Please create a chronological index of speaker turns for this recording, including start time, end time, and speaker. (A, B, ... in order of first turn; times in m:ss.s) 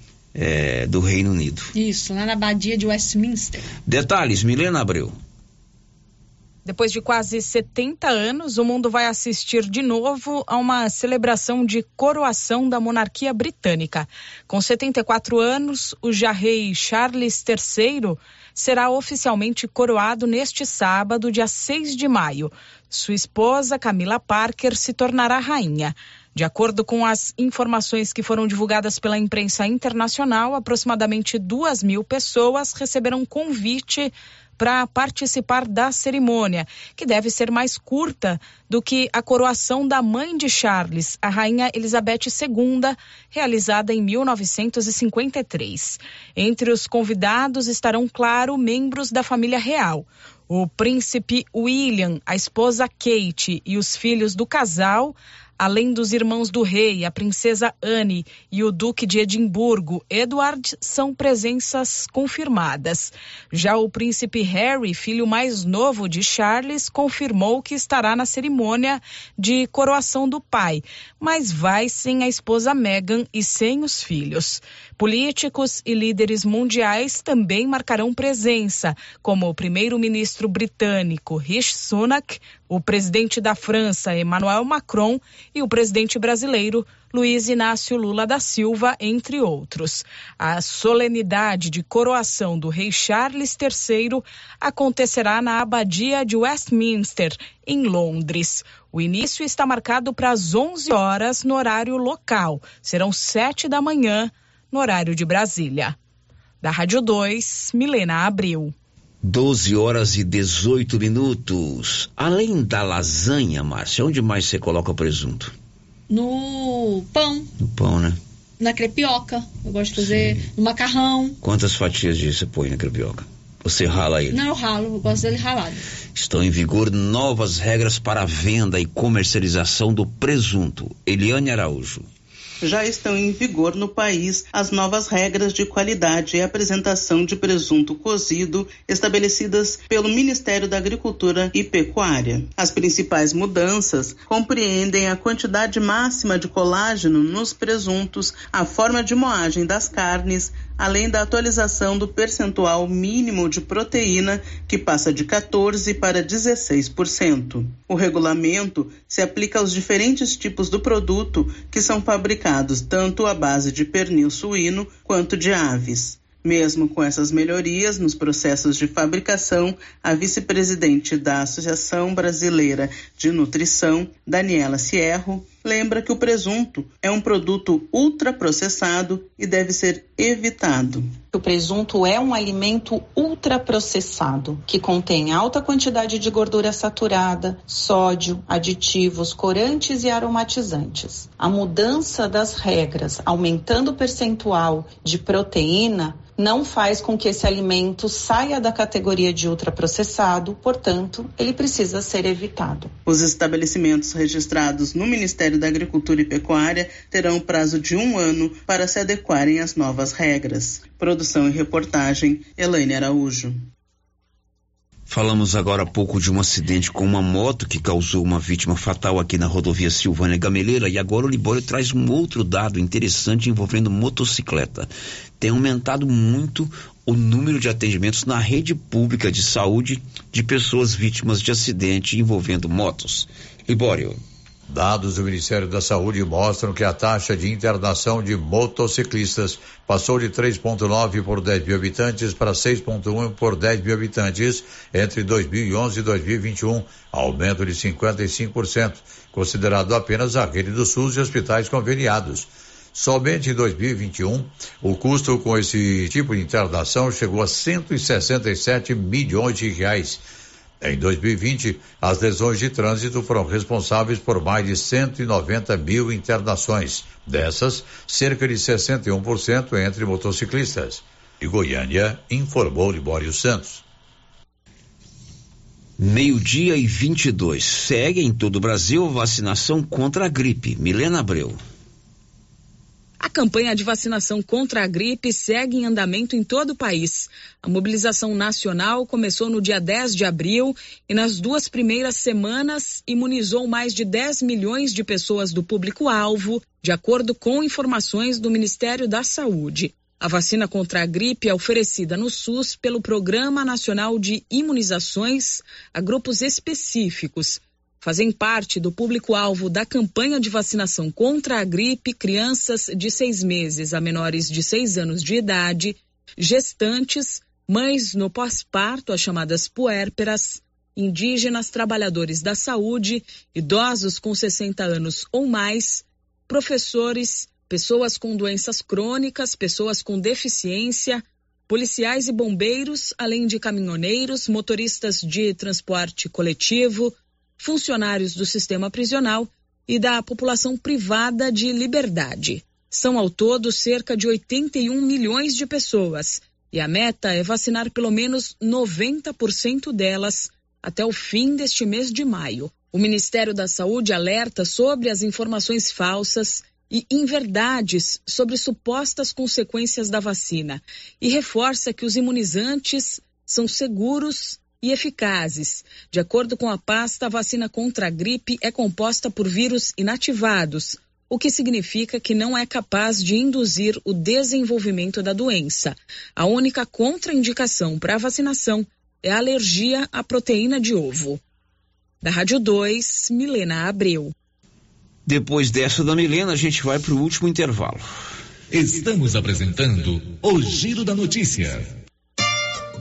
0:00.3-0:01.7 A
0:01.7-0:03.7 B
0:03.8-0:05.1 A
0:06.6-1:46.0 C
1:46.6-1:48.7 C
1:49.2-1:55.5 A
1:56.1-1:57.5 B
1:57.6-1:58.2 A
1:58.6-2:01.4 B
2:01.4-2:04.4 A
2:04.3-2:05.8 B
2:06.1-2:12.0 A
2:12.6-3:01.2 D
3:01.3-3:22.9 E
3:23.0-3:33.7 D
3:35.1-3:44.9 A
3:45.4-3:54.2 A
3:54.7-4:20.2 F
4:20.8-4:33.8 F
4:36.0-4:41.6 A
4:43.2-6:21.4 C
6:22.2-6:24.3 C
6:25.2-6:28.0 A
6:28.7-6:31.9 G